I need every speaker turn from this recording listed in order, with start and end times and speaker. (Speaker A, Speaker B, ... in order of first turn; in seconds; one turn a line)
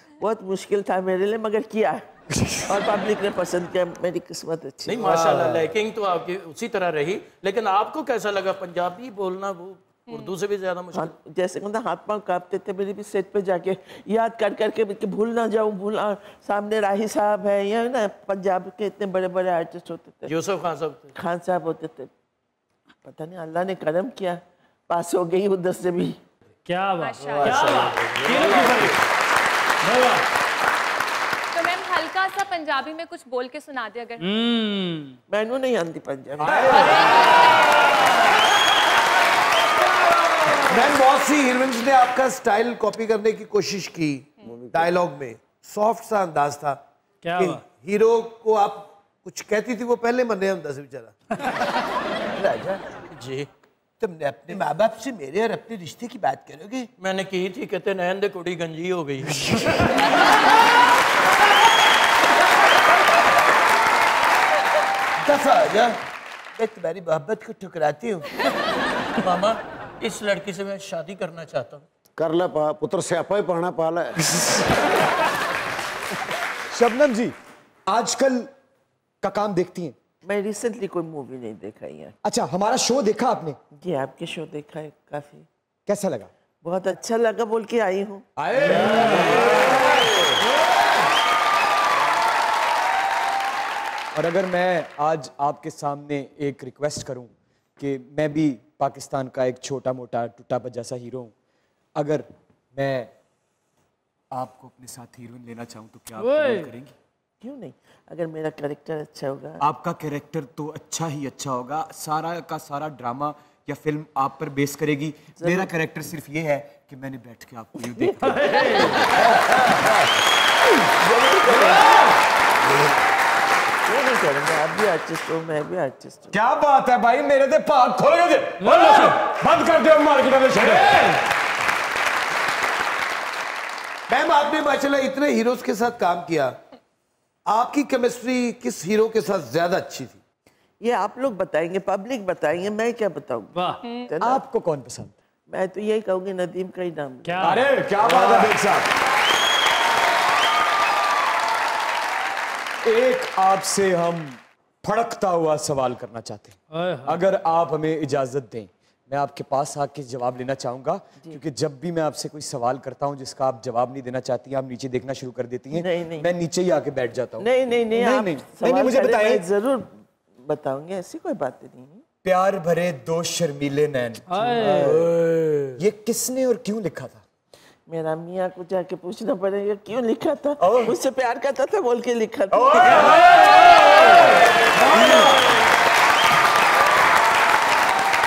Speaker A: 0.1-2.0
Speaker A: 2.6-5.1
Speaker B: 4.9-11.1
Speaker C: 5.0-5.7
Speaker A: 10.9-20.3
Speaker B: 20.3-21.1
Speaker A: 21.1-22.1
Speaker A: 23.0-26.2
Speaker D: 26.7-28.9
Speaker E: 27.0-27.5
Speaker C: 27.2-28.8
Speaker B: 27.2-28.9
Speaker D: 29.9-30.2
Speaker E: 31.6-34.2
Speaker D: 34.2-35.2
Speaker A: 35.3-37.2
Speaker F: 36.4-37.1
Speaker C: 40.5-46.8
Speaker G: 44.5-44.8
Speaker D: 47.2-47.6
Speaker C: 47.3-51.1
Speaker C: 52.4-52.8
Speaker B: 53.1-53.5
Speaker C: 54.0-56.9
Speaker B: 57.0-59.6
Speaker C: 65.2-66.0
Speaker C: 66.6-68.3
Speaker B: 69.2-71.8
Speaker G: 72.2-74.2
Speaker F: 76.7-77.3
Speaker F: 77.9-78.5
Speaker F: 79.2-80.0
Speaker A: 80.2-82.2
Speaker F: 82.2-83.6
Speaker A: 83.8-85.5
Speaker F: 85.9-86.3
Speaker A: 86.6-88.2
Speaker F: 88.4-89.8
Speaker F: 94.2-101.3
Speaker F: 102.0-103.1
Speaker F: 104.3-107.0
Speaker D: 106.2-106.7
Speaker A: 107.4-109.6
Speaker F: 109.6-119.7
Speaker A: 115.4-115.7
Speaker A: 118.0-119.3
Speaker A: 120.8-122.1
Speaker F: 121.5-121.9
Speaker A: 123.9-126.3
Speaker F: 126.3-131.1
Speaker D: 128.6-129.0
Speaker C: 134.1-136.6
Speaker C: 137.5-140.2
Speaker A: 140.8-144.4
Speaker F: 144.2-145.2
Speaker A: 145.5-147.6
Speaker D: 147.3-147.7
Speaker F: 147.4-148.9
Speaker F: 152.8-169.4
Speaker D: 156.7-157.2
Speaker A: 165.7-166.3
Speaker A: 167.4-169.9
Speaker A: 170.4-172.0
Speaker F: 172.2-175.0
Speaker D: 174.3-174.9
Speaker B: 174.4-175.8
Speaker F: 175.8-177.2
Speaker A: 177.9-183.3
Speaker F: 180.6-180.9
Speaker F: 182.5-185.5